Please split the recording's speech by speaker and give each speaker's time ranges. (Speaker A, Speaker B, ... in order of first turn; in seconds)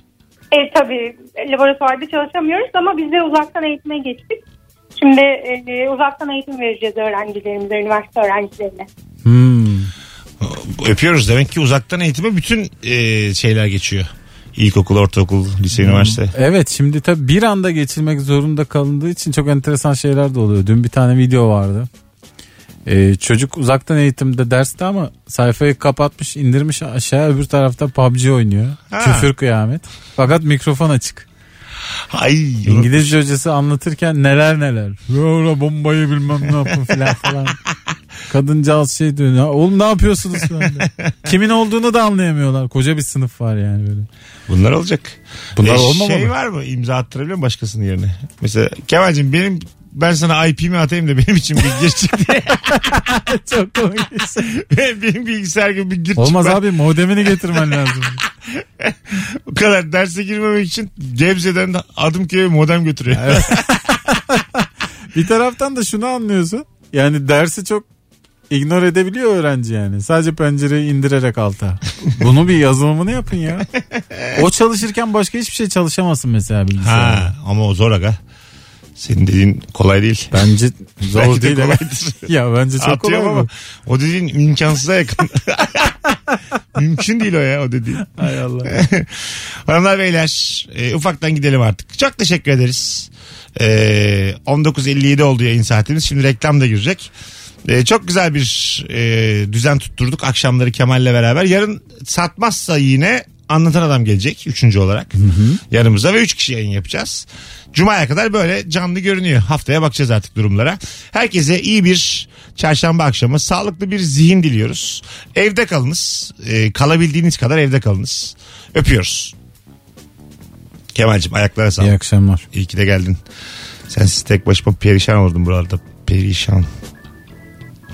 Speaker A: 0.5-4.4, 5.0-8.9
Speaker B: 9.2-9.9, 15.8-21.9, 22.9-31.3, 32.6-37.6, 38.3-44.1, 45.5-46.3, 52.7-54.5, 56.2-58.2, 63.1-67.8, 68.5-73.7, 74.3-77.3, 80.3-83.5, 88.1-88.7, 105.2-105.6, 121.8-122.4
Speaker C: 10.4-16.3, 28.9-29.3, 32.1-33.1, 40.6-41.1, 44.5-53.0, 54.5-56.6, 58.8-63.6, 76.8-78.2, 79.0-80.4, 81.1-86.0, 86.7-88.1, 88.6-97.1, 97.7-105.2, 105.7-119.3, 120.9-122.0, 122.5-123.2, 123.9-126.7